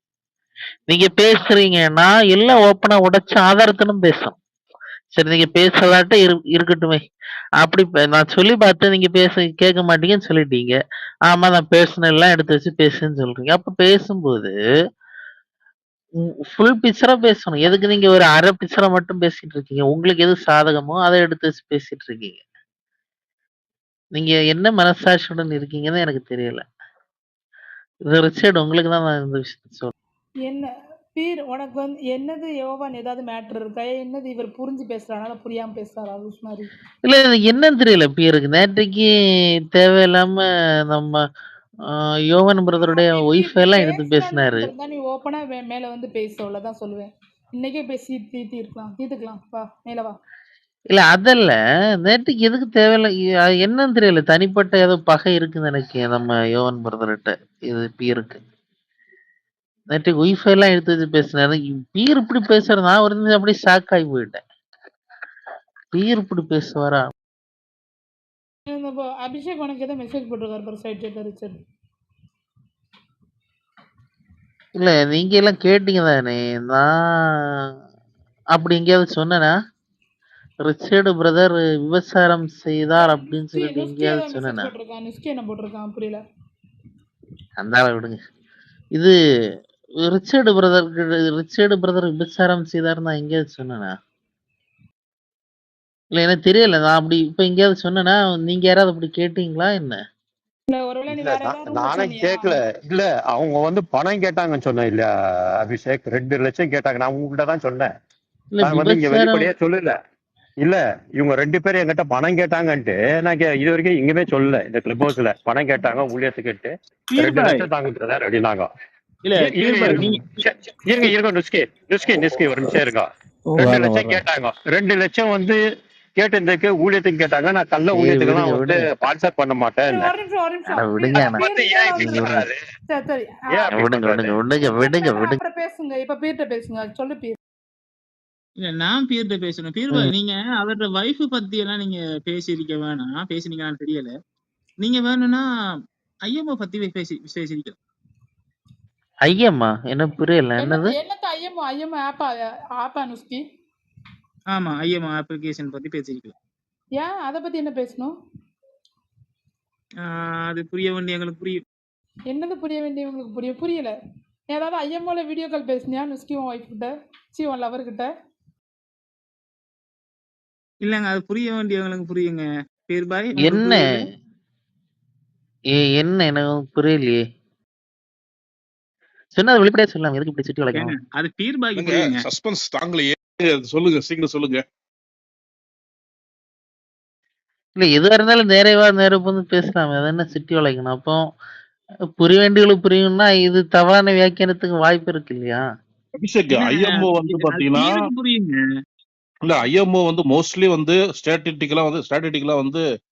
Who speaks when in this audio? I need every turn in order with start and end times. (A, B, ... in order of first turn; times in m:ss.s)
0:00.9-0:04.4 A
0:05.1-0:07.0 A
0:07.6-0:10.7 A
0:11.3-0:14.5 A
0:16.5-0:22.4 A
0:24.1-0:26.6 A
0:28.1-0:29.9 A
0:30.5-0:36.7 B
0:37.0-0:39.1 A
0:39.7-0:41.2 A
0:41.9-0:44.7 A
0:42.8-0:50.1 B
0:50.9-0:58.4 A
0:59.9-1:04.4 A
1:05.9-1:07.1 A
1:08.7-1:11.6 B
1:14.8-1:16.9 A
1:18.5-1:19.5 A
1:20.6-1:24.7 A
1:23.0-1:26.2 B
1:27.6-1:28.2 A
1:30.0-1:33.9 A
1:36.1-1:40.0 A
1:40.7-1:42.6 B
1:41.1-1:45.1 C
1:45.6-1:47.9 C
1:48.5-1:49.5 A
1:48.6-1:50.0 C
1:50.6-1:58.7 C
1:57.1-1:57.7 D
1:59.3-2:00.2 D
1:59.4-2:05.6 C
2:06.2-2:10.1 C
2:07.9-2:08.9 A
2:09.9-2:13.7 B
2:10.7-2:11.4 A
2:11.2-2:12.6 C
2:12.0-2:12.4 A
2:13.5-2:14.4 C
2:13.7-2:15.4 A
2:14.7-2:17.4 B
2:18.6-2:24.1 D
2:24.8-2:25.4 D
2:26.3-2:27.7 D
2:29.2-2:30.9 A
2:30.6-2:33.4 B
2:34.5-2:36.3 D
2:37.0-2:38.1 B
2:40.0-2:41.6 D
2:42.3-2:43.9 B
2:44.5-2:48.1 B
2:50.8-2:54.0 D
2:53.4-2:53.9 A
2:55.8-2:57.2 A
2:59.3-3:00.9 A
3:00.7-3:02.3 D
3:01.7-3:04.6 E
3:07.8-3:11.2 A
3:12.2-3:15.6 A
3:16.2-3:18.0 E
3:16.5-3:18.6 D
3:19.4-3:22.8 E